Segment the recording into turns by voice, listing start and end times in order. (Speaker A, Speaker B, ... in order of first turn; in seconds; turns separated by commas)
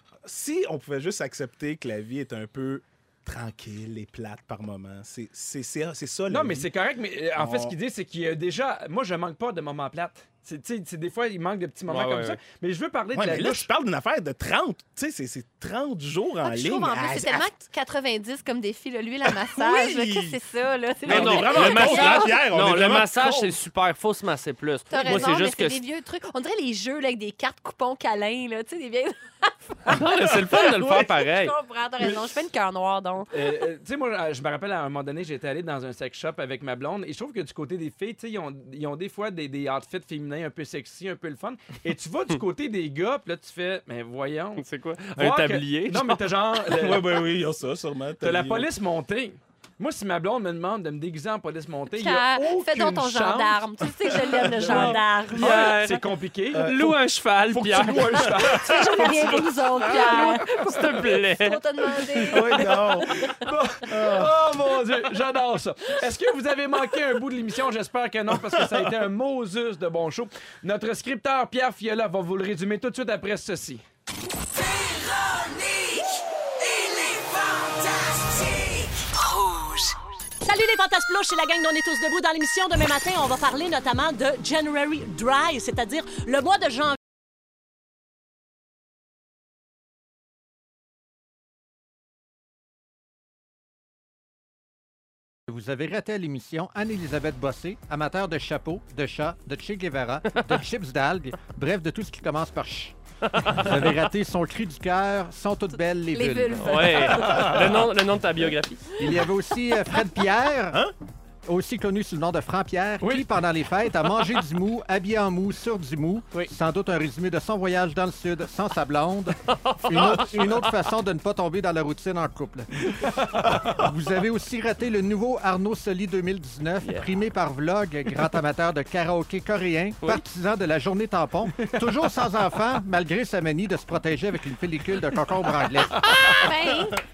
Speaker A: 0.2-6.7, Speaker B: 6.3-13.7, Speaker A: 7.4-7.8, Speaker C: 11.9-12.4, Speaker A: 13.1-17.7, Speaker D: 16.4-22.4, Speaker A: 19.2-20.4, Speaker A: 21.0-23.6, Speaker C: 21.1-25.8, Speaker D: 24.9-33.3, Speaker A: 25.0-25.4, Speaker C: 29.9-31.6, Speaker B: 33.3-44.6, Speaker C: 44.6-46.2, Speaker B: 45.1-47.2, Speaker A: 46.7-48.7, Speaker B: 48.2-53.6, Speaker D: 51.9-55.6, Speaker B: 54.1-56.8, Speaker C: 54.6-58.4, Speaker A: 56.5-57.0, Speaker B: 57.5-60.9, Speaker A: 57.7-59.1, Speaker D: 58.5-63.5, Speaker C: 59.1-61.6, Speaker A: 62.3-63.1, Speaker B: 62.6-73.8, Speaker A: 63.9-64.4, Speaker A: 68.3-68.9, Speaker E: 75.1-76.0, Speaker E: 76.7-77.4, Speaker E: 78.1-87.0, Speaker F: 95.5-103.0, Speaker C: 103.3-103.8, Speaker F: 103.5-107.0, Speaker D: 106.1-107.6, Speaker C: 106.6-109.0, Speaker A: 107.2-107.8, Speaker F: 109.0-110.9, Speaker F: 111.5-136.3, Speaker B: 113.0-113.3, Speaker C: 119.4-120.6, Speaker C: 126.8-127.1, Speaker D: 136.1-137.0